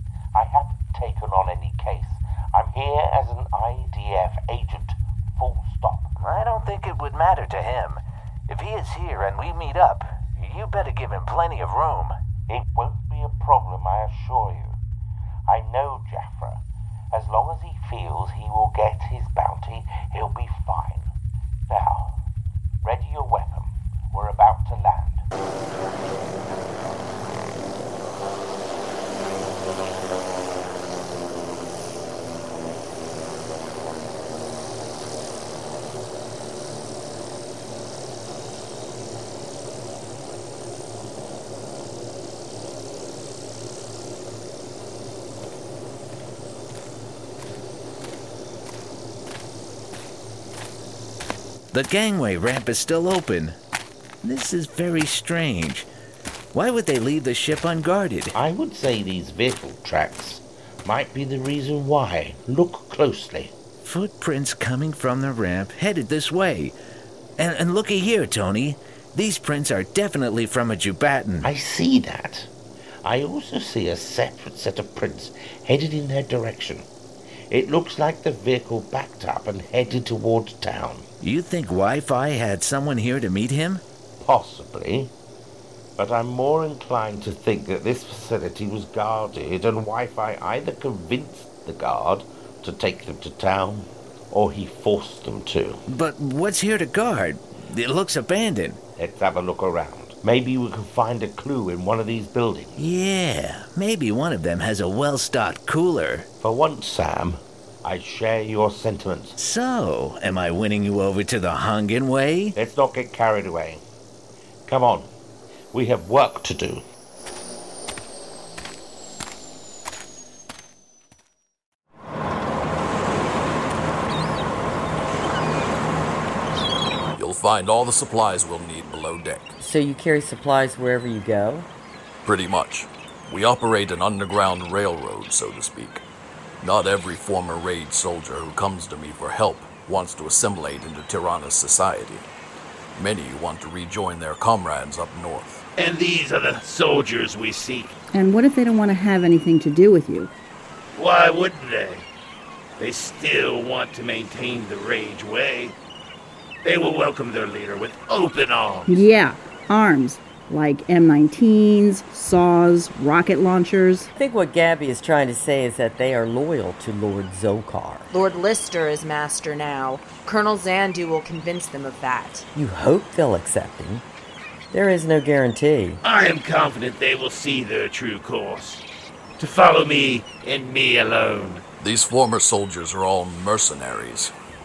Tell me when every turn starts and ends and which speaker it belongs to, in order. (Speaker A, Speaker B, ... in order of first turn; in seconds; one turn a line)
Speaker A: 0.3-6.1
Speaker B: 6.2-12.1
Speaker A: 12.5-14.8
Speaker A: 15.5-16.6
Speaker A: 17.1-21.1
Speaker A: 21.7-22.1
Speaker A: 22.8-25.2
Speaker C: 51.7-53.6
Speaker C: 54.2-55.9
Speaker C: 56.5-58.4
Speaker A: 58.4-63.5
Speaker C: 63.8-66.8
Speaker C: 67.4-71.5
Speaker A: 71.4-72.5
Speaker A: 73.0-76.9
Speaker A: 77.5-81.1
Speaker C: 81.2-83.8
Speaker A: 84.2-85.1
Speaker A: 86.0-95.8
Speaker C: 95.9-98.8
Speaker A: 99.0-102.8
Speaker C: 102.8-106.3
Speaker A: 106.4-109.4
Speaker C: 109.4-112.5
Speaker A: 112.5-113.8
Speaker A: 114.7-115.1
Speaker A: 115.7-116.8
Speaker D: 127.2-129.6
Speaker E: 129.6-131.7
Speaker D: 132.2-136.0
Speaker D: 136.6-142.2
Speaker D: 142.9-145.7
Speaker F: 145.8-148.0
Speaker G: 148.1-150.3
Speaker F: 150.9-152.1
Speaker F: 152.8-155.8
Speaker F: 156.6-159.0
Speaker G: 158.9-164.1
Speaker E: 164.2-168.1
Speaker H: 168.1-172.5
Speaker E: 172.5-174.1
Speaker E: 174.7-176.0
Speaker F: 176.0-178.8
Speaker F: 179.4-181.7
Speaker D: 181.8-184.3